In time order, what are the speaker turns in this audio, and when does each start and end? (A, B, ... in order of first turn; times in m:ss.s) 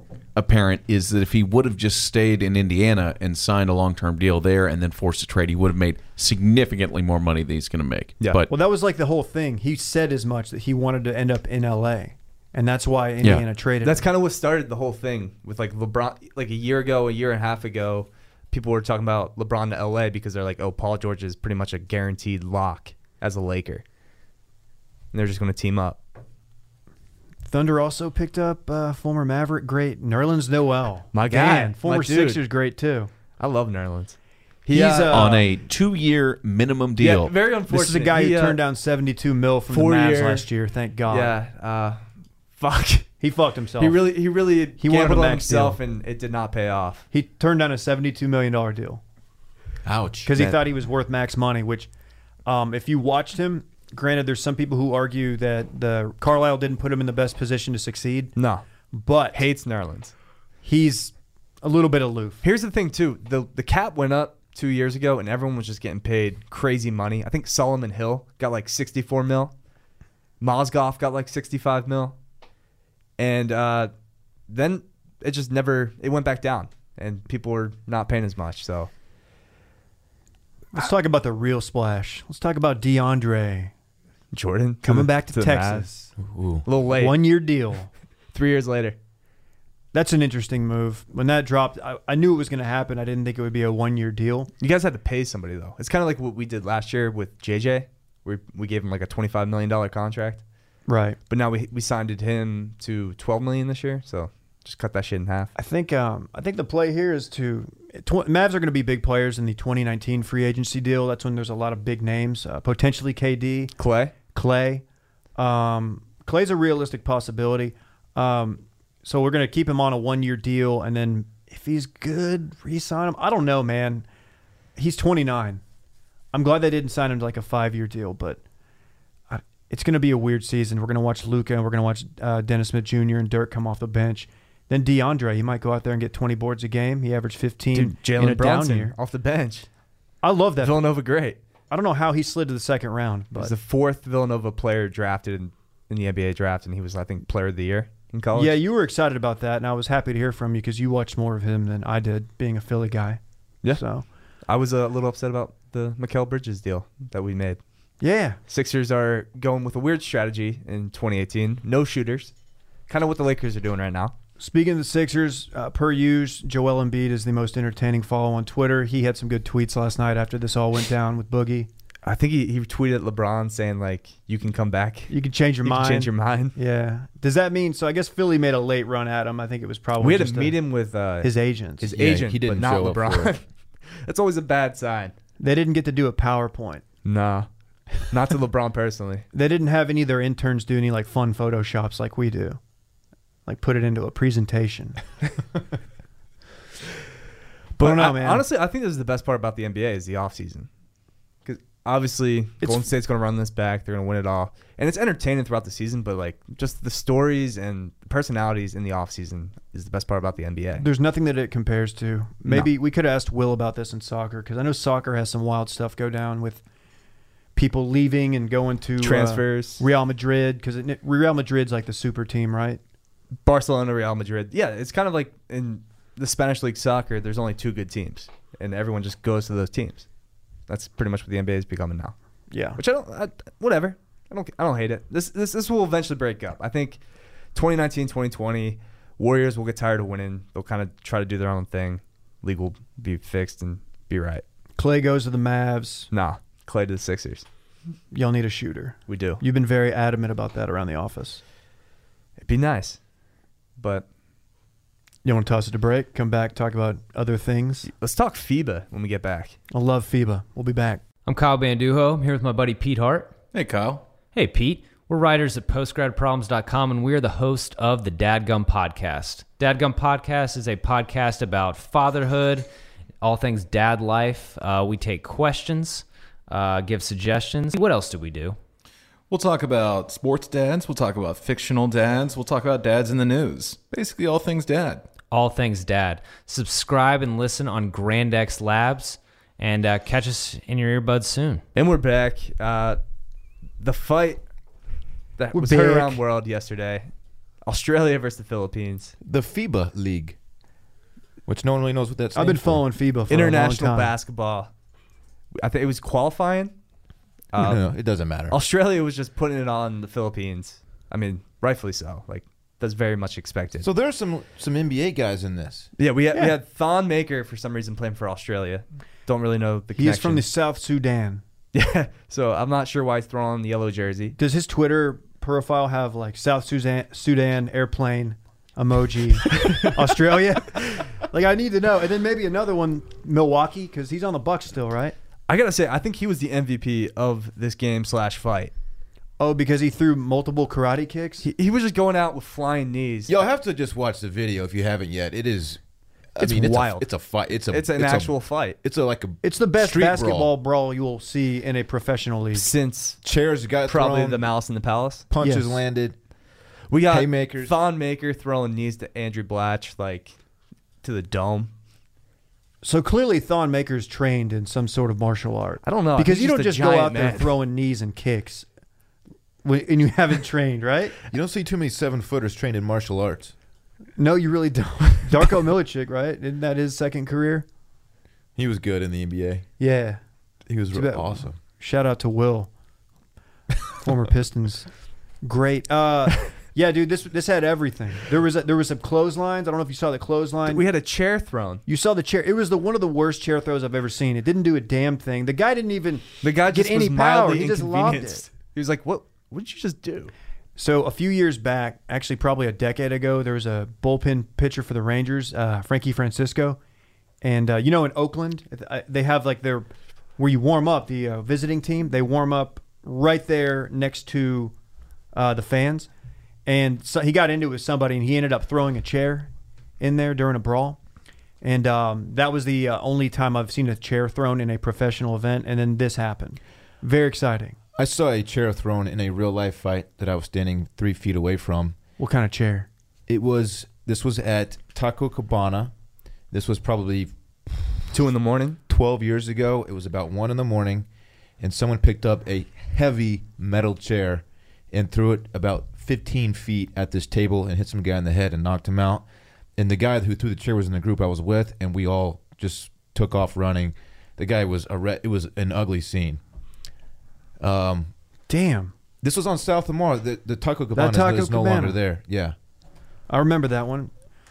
0:00.4-0:08.5 A
0:08.5-0:14.0 B
0:13.8-0:23.8 C
0:25.1-0:26.0 C
0:27.5-0:33.1 B
0:31.1-0:32.4 C
0:33.4-0:35.4 C
0:34.7-0:35.5 B
0:35.1-0:37.3 A
0:37.0-0:38.6 C
0:37.7-0:41.3 B
0:39.7-0:40.5 C
0:41.1-0:42.0 C
0:42.6-0:43.1 C
0:43.2-0:44.0 B
0:43.8-0:47.1 C
0:44.8-0:45.8 B
0:47.1-0:49.0 B
0:49.8-0:50.6 D
0:50.2-0:51.9 B
0:52.5-0:58.3 B
0:58.4-0:58.6 C
0:58.9-0:59.4 B
0:59.3-1:00.1 C
1:00.6-1:02.4 B
1:02.4-1:09.5 C
1:10.4-1:12.2 C
1:13.2-1:13.9 C
1:14.5-1:18.9 C
1:20.7-1:23.7 B
1:24.3-1:25.9 C
1:24.8-1:26.1 B
1:26.2-1:26.7 D
1:26.6-1:27.2 C
1:26.9-1:27.9 B
1:28.3-1:29.0 C
1:29.9-1:34.5 B
1:34.6-1:40.4 C
1:40.9-1:41.2 B
1:41.3-1:45.5 C
1:45.6-1:53.7 B
1:53.8-1:54.2 C
1:54.3-1:54.8 B
1:55.4-2:04.1 B
2:04.8-2:05.6 B
2:06.3-2:08.4 B
2:09.3-2:18.9 B
2:17.7-2:19.7 C
2:20.2-2:20.8 B
2:20.6-2:21.4 C
2:21.7-2:23.5 B
2:23.3-2:28.6 C
2:28.3-2:33.2 B
2:33.7-2:34.0 B
2:34.5-2:37.6 C
2:38.0-2:38.4 B
2:38.5-2:42.3 C
2:42.9-2:44.2 C
2:44.4-2:51.7 B
2:52.0-2:56.6 C
2:55.1-3:00.6 B
3:00.0-3:05.1 C
3:01.2-3:01.9 B
3:01.9-3:03.4 D
3:05.4-3:06.8 B
3:07.0-3:07.5 C
3:08.0-3:09.3 C
3:09.3-3:12.6 B
3:13.5-3:15.0 B
3:17.8-3:20.7 C
3:17.8-3:18.4 B
3:21.5-3:30.9 C
3:22.6-3:22.9 B
3:30.8-3:36.6 B
3:37.6-3:42.8 B
3:39.0-3:39.8 C
3:43.4-3:50.1 C
3:50.7-3:52.2 C
3:52.5-3:52.8 B
3:52.8-3:57.0 C
3:57.6-4:04.4 C
4:04.8-4:06.1 B
4:06.1-4:07.4 C
4:08.1-4:11.4 B
4:09.1-4:09.4 C
4:12.4-4:13.0 C
4:13.8-4:14.0 C
4:15.2-4:17.9 B
4:17.8-4:19.6 C
4:19.7-4:21.0 B
4:21.3-4:23.4 E
4:23.5-4:24.0 F
4:24.3-4:32.7 E
4:33.2-4:38.6 E
4:39.3-4:45.1 F
4:45.3-4:51.6 E
4:51.8-4:53.0 C
4:53.8-4:54.4 C
4:55.4-4:57.1 C
4:55.5-4:56.2 B
4:57.6-4:59.2 C
4:59.2-5:00.4 D
5:01.5-5:02.8 D
5:02.4-5:04.1 B
5:03.3-5:04.7 C
5:05.6-5:06.7 C
5:07.5-5:07.9 C
5:07.6-5:08.6 D
5:08.5-5:13.9 C
5:13.8-5:15.9 D
5:16.0-5:20.5 C
5:20.0-5:21.4 B
5:21.7-5:24.4 C
5:24.4-5:35.2 B
5:29.5-5:29.8 C
5:35.5-5:38.7 C
5:39.4-5:41.5 B
5:41.4-5:43.4 C
5:43.3-5:45.8 D
5:46.4-5:50.5 D
5:46.4-5:47.1 C
5:47.7-5:48.8 C
5:49.4-5:52.7 B
5:52.5-5:53.2 C
5:53.2-5:54.5 D
5:53.9-5:55.2 C
5:55.3-5:56.2 D
5:55.4-5:55.8 B
5:56.9-6:00.4 C
5:57.1-5:57.8 D
6:01.0-6:01.7 C
6:02.8-6:08.7 B
6:05.8-6:07.6 C
6:09.6-6:11.2 B
6:11.3-6:13.5 D
6:14.2-6:17.7 B
6:18.6-6:19.7 D
6:19.8-6:20.2 B
6:20.7-6:21.6 D
6:20.9-6:22.7 B
6:23.9-6:24.9 B
6:25.4-6:30.8 B
6:30.7-6:31.8 C
6:31.9-6:38.4 B
6:36.4-6:40.3 C
6:40.8-6:46.8 B
6:47.4-6:54.7 B
6:55.3-6:56.1 B
6:56.7-7:01.0 B
7:01.6-7:07.8 B
7:08.0-7:12.0 D
7:12.2-7:12.9 B
7:13.3-7:15.9 D
7:16.5-7:18.1 D
7:18.1-7:18.8 C
7:18.9-7:21.1 D
7:21.6-7:29.2 D
7:29.8-7:36.4 D
7:37.6-7:38.1 D
7:38.5-7:38.9 B
7:39.2-7:42.6 D
7:41.0-7:42.0 B
7:43.3-7:44.1 B